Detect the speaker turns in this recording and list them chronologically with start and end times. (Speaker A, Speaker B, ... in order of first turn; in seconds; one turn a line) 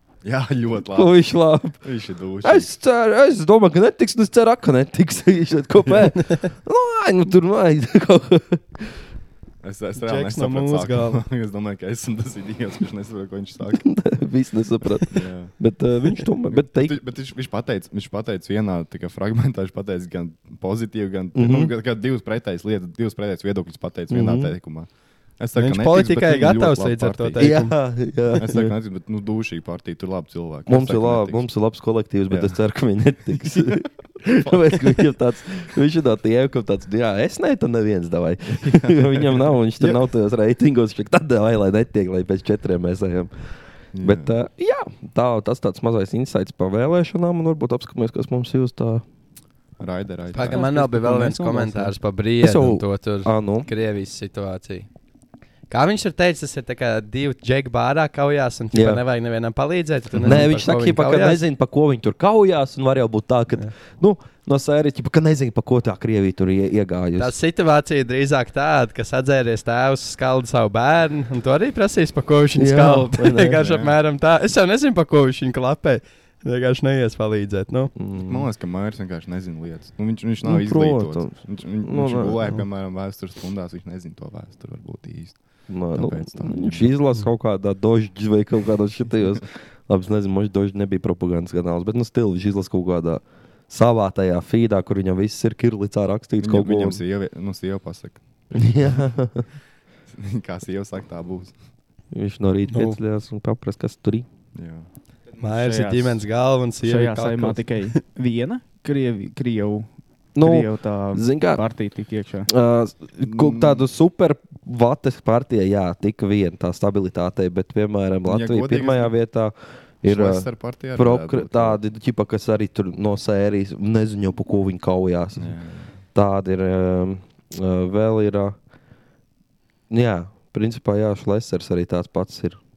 Speaker A: 0.2-1.2
Speaker B: 0.9-1.8
Speaker A: 1.8-2.7
Speaker B: 2.4-8.9
Speaker A: 5.8-6.1
Speaker A: 9.6-13.8
Speaker C: 9.9-11.2
Speaker B: 13.7-17.0
Speaker A: 15.1-15.5
Speaker A: 16.5-27.6
Speaker B: 21.3-21.7
Speaker B: 24.1-24.5
Speaker C: 25.6-27.7
Speaker B: 27.4-28.7
Speaker A: 28.3-31.5
Speaker B: 30.7-43.3
Speaker A: 32.3-32.6
Speaker A: 33.3-33.9
Speaker A: 34.4-35.1
Speaker A: 38.5-40.0
Speaker A: 43.9-44.3
Speaker B: 44.0-49.0
Speaker A: 49.8-51.9
Speaker C: 50.3-54.9
Speaker B: 52.4-53.7
Speaker C: 55.7-61.4
Speaker B: 58.7-59.0
Speaker A: 60.1-60.4
Speaker B: 60.2-67.3
Speaker C: 67.2-77.9
Speaker B: 72.5-73.6
Speaker A: 73.6-74.0
Speaker B: 78.0-78.5
Speaker A: 78.2-85.4
Speaker B: 80.4-82.4
Speaker B: 85.7-97.0
Speaker A: 85.9-86.9
Speaker A: 96.4-99.0
Speaker B: 98.5-99.5
Speaker A: 100.1-101.5
Speaker B: 102.1-104.3
Speaker C: 102.7-103.0
Speaker A: 104.5-104.9
Speaker C: 105.4-107.8
Speaker D: 105.4-106.3
Speaker D: 106.8-112.5
Speaker B: 110.3-111.6
Speaker B: 112.5-125.5
Speaker A: 113.2-113.8
Speaker A: 118.2-119.1
Speaker A: 120.0-121.8
Speaker A: 125.4-125.9
Speaker B: 126.1-128.6
Speaker B: 129.9-132.6